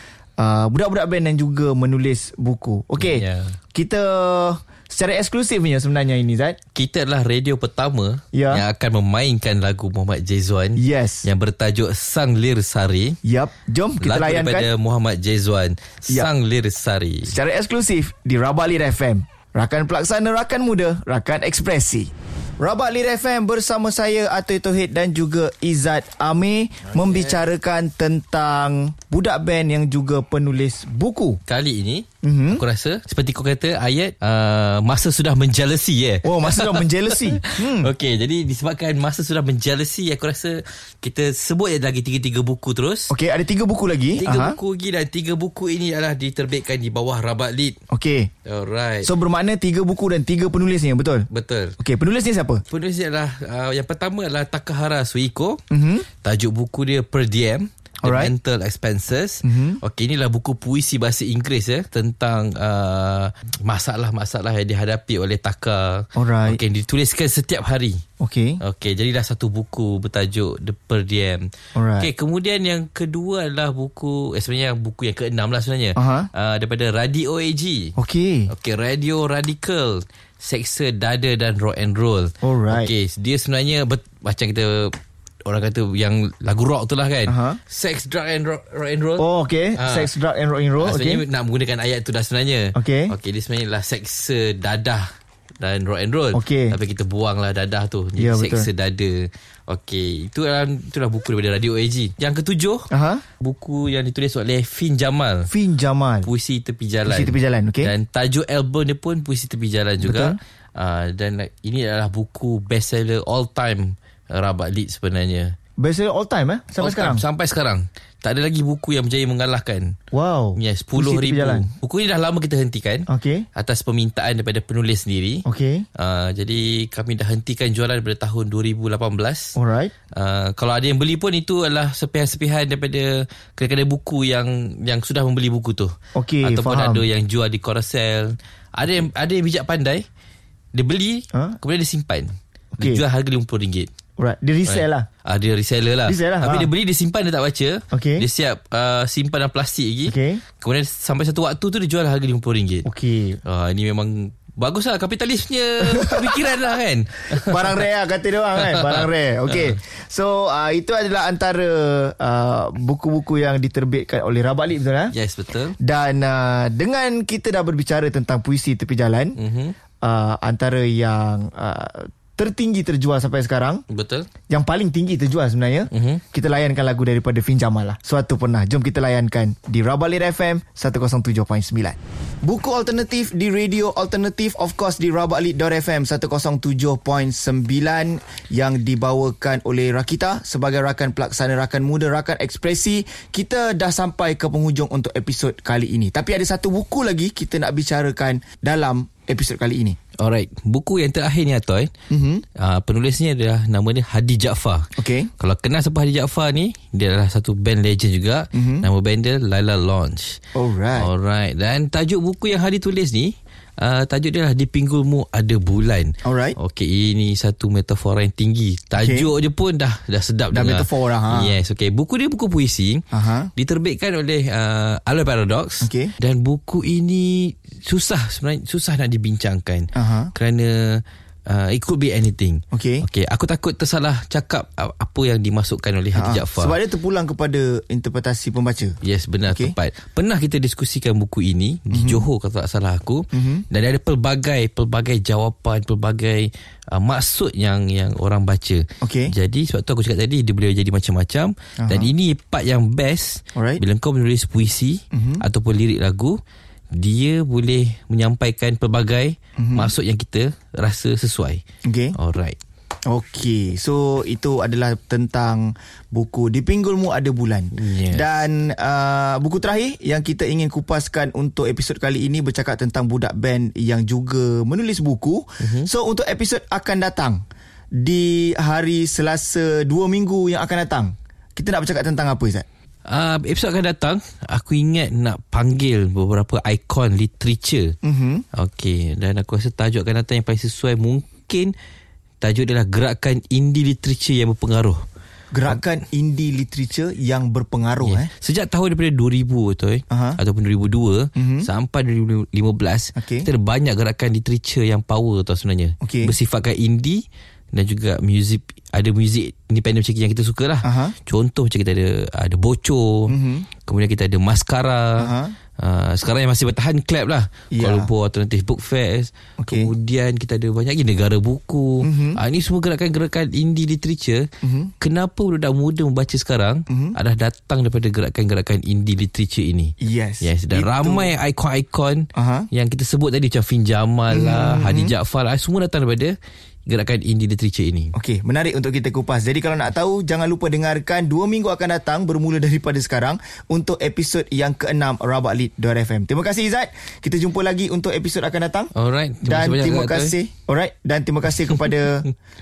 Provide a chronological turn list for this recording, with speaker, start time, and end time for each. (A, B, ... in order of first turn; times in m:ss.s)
0:00.4-0:06.6 A
0:03.0-0:03.6 B
0:06.7-0:13.2 B
0:08.3-0:08.6 A
0:10.8-0:11.2 A
0:13.2-0:14.7 A
0:14.0-0:17.3 B
0:17.2-0:31.4 A
0:26.8-0:27.4 B
0:31.5-0:43.1 B
0:32.2-0:32.6 A
0:36.2-0:37.9 A
0:43.1-0:44.6 A
0:44.2-0:47.8 B
0:47.9-0:48.3 A
0:48.4-0:49.1 B
0:49.0-0:51.3 A
0:51.3-0:51.8 B
0:51.8-0:52.6 A
0:52.7-0:55.6 B
0:55.7-0:56.1 A
0:56.2-1:08.0 B
0:58.0-0:58.3 A
0:59.4-0:59.8 A
1:06.1-1:06.6 A
1:08.2-1:08.6 A
1:08.6-1:17.9 B
1:11.7-1:12.1 A
1:16.0-1:16.3 A
1:18.0-1:18.5 A
1:18.5-1:30.1 B
1:22.4-1:22.9 A
1:27.3-1:27.6 A
1:29.2-1:31.2 A
1:30.8-1:42.9 B
1:32.7-1:33.1 A
1:36.3-1:36.7 A
1:38.2-1:38.7 A
1:42.9-1:43.2 A
1:43.4-1:45.5 B
1:45.5-1:46.3 A
1:46.2-1:55.6 B
1:47.1-1:47.9 A
1:50.0-1:50.4 A
1:55.8-1:57.2 A
1:56.8-2:00.0 B
2:00.1-2:01.7 A
2:00.6-2:05.4 B
2:03.1-2:03.4 A
2:05.4-2:05.8 A
2:06.0-2:09.5 B
2:09.6-2:09.9 A
2:10.2-2:20.0 B
2:16.1-2:17.0 A
2:20.7-2:23.9 B
2:22.8-2:23.0 A
2:24.2-2:25.1 A
2:24.6-2:32.8 B
2:26.1-2:26.7 A
2:27.9-2:28.2 A
2:30.1-2:30.4 A
2:32.8-2:33.4 A
2:33.4-2:37.8 B
2:35.8-2:36.4 A
2:37.3-2:45.1 A
2:38.6-2:39.8 B
2:45.1-2:45.8 B
2:45.8-2:49.4 A
2:49.4-2:49.8 B
2:50.0-2:53.8 A
2:53.9-2:54.3 B
2:54.5-3:20.0 A
2:55.9-2:56.2 B
3:20.2-3:21.9 B
3:22.1-3:22.4 A
3:22.6-3:30.4 B
3:25.0-3:25.3 A
3:28.5-3:28.8 A
3:30.5-3:31.1 A
3:31.0-3:56.8 B
3:36.2-3:36.6 A
3:39.0-3:39.3 A
3:40.5-3:41.5 A
3:43.1-3:43.5 A
3:45.8-3:46.1 A
3:49.9-3:50.3 A
3:52.7-3:53.0 A
3:56.1-3:59.0 A
3:59.0-4:16.4 B
4:01.9-4:02.2 A
4:03.3-4:03.6 A
4:09.0-4:09.3 A
4:11.8-4:12.1 A
4:13.5-4:13.8 A
4:15.1-4:15.4 A
4:16.9-4:21.6 B
4:19.6-4:19.9 A
4:21.8-4:22.1 A
4:22.1-4:22.6 B
4:23.0-4:37.4 A
4:27.7-4:28.3 B
4:35.6-4:35.9 B
4:37.9-4:42.6 A
4:43.1-4:47.9 B
4:48.0-4:48.4 A
4:48.5-4:51.7 B
4:52.4-4:55.0 B
4:55.5-4:58.3 A
4:58.0-5:24.5 B
5:00.1-5:00.4 A
5:01.4-5:01.7 A
5:03.2-5:03.5 A
5:06.0-5:06.3 A
5:10.8-5:11.1 A
5:13.3-5:13.7 A
5:15.2-5:15.5 A
5:17.7-5:18.1 A
5:19.6-5:19.9 A
5:22.0-5:22.4 A
5:24.6-5:24.9 A
5:25.0-5:36.3 B
5:26.9-5:27.1 A
5:30.0-5:31.3 A
5:32.3-5:32.7 A
5:34.3-5:35.1 A
5:36.9-5:38.1 B
5:38.1-5:48.9 A
5:48.9-5:50.3 B
5:49.4-5:52.2 A